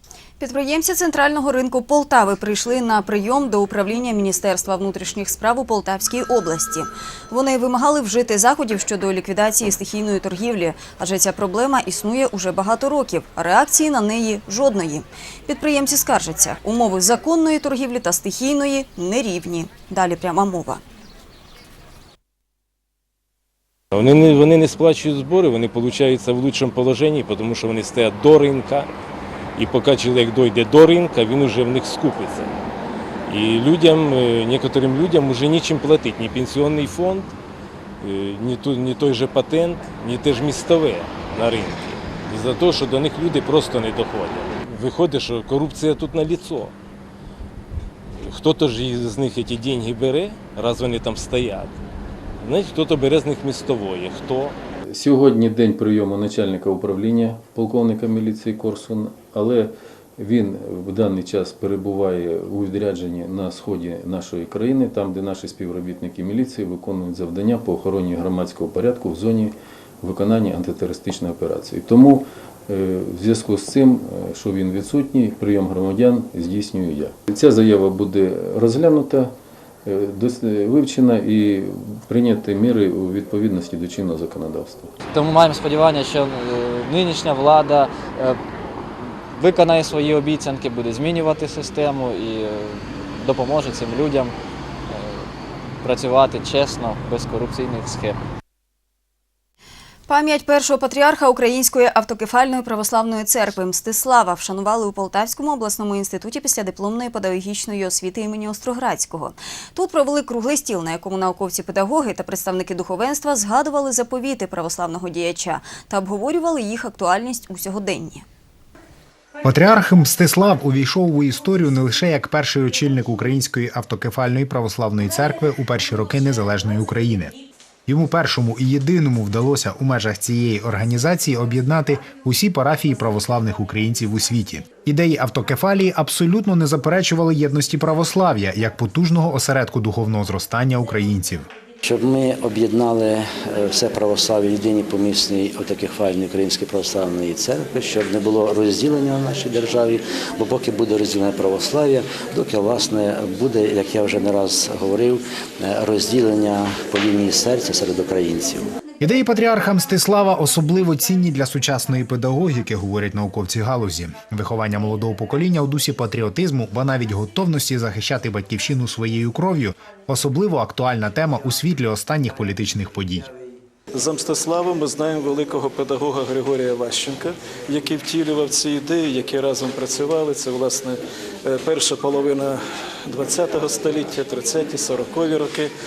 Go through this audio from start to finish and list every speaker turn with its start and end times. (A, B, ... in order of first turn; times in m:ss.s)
0:00.4-0:20.8 A
0:23.9-0:28.9 B
0:29.6-0:32.5 B
0:33.3-0:37.3 B
0:38.0-0:46.7 B
0:48.2-0:51.7 B
0:52.4-0:54.6 B
0:54.8-1:19.3 C
1:19.8-1:24.9 C
1:25.1-1:28.4 D
1:29.0-1:34.3 D
1:34.9-1:35.3 D
1:35.8-1:38.2 D
1:40.1-1:58.2 A
1:59.4-2:07.3 E
2:07.8-2:21.5 E
2:21.8-2:38.7 F
2:39.0-2:53.3 E
2:54.0-3:02.6 G
3:03.2-3:05.5 G